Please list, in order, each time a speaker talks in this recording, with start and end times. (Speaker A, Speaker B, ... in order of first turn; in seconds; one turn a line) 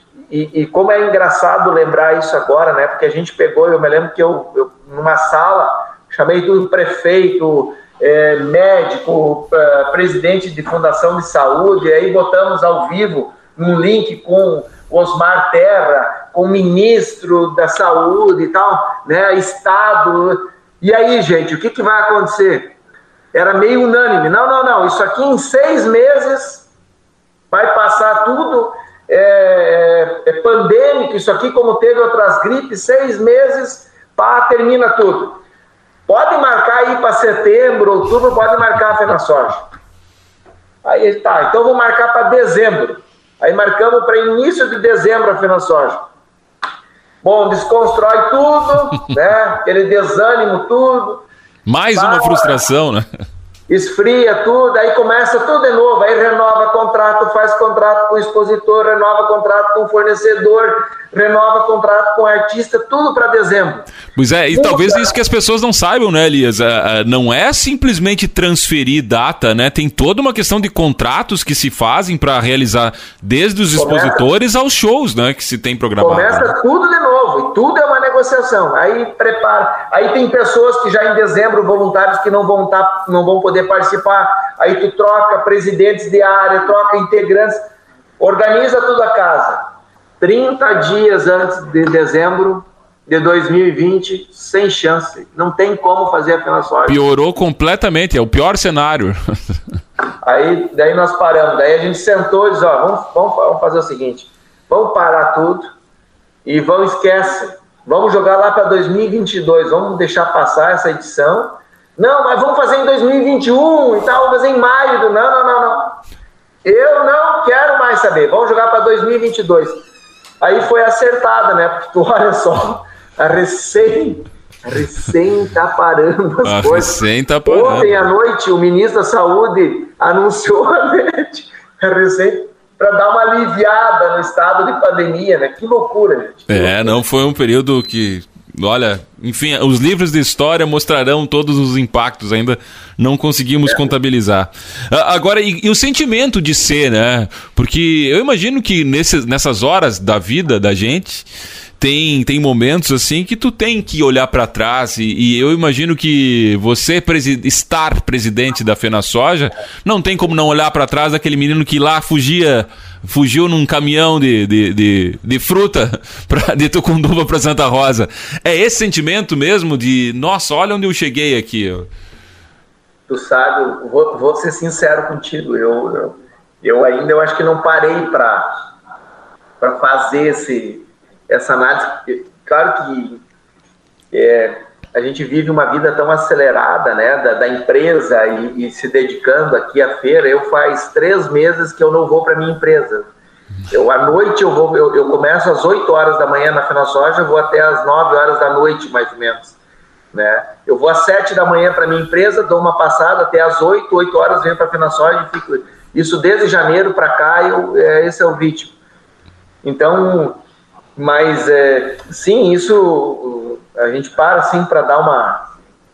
Speaker A: 0.3-22.7
Speaker A: 23.3-26.6
Speaker A: 27.5-35.4
Speaker A: 36.1-39.7
Speaker A: 40.8-46.0
Speaker A: 47.2-51.2
Speaker B: 51.6-53.1
Speaker A: 51.9-52.6
Speaker A: 53.7-63.9
Speaker B: 64.2-76.5
Speaker A: 64.5-65.1
Speaker A: 73.7-74.2
Speaker A: 76.0-87.6
Speaker A: 88.2-89.7
Speaker A: 90.2-97.0
Speaker B: 96.9-99.3
Speaker A: 100.2-105.7
Speaker A: 106.5-116.0
Speaker A: 116.6-119.8
Speaker A: 120.4-136.9
Speaker B: 126.4-128.1
Speaker B: 136.5-151.3
Speaker B: 151.8-171.9
Speaker A: 173.1-178.5
Speaker A: 179.6-183.2
Speaker A: 184.1-193.1
Speaker A: 193.7-199.6
Speaker A: 200.1-208.7
Speaker A: 209.6-210.4
Speaker A: 210.9-215.4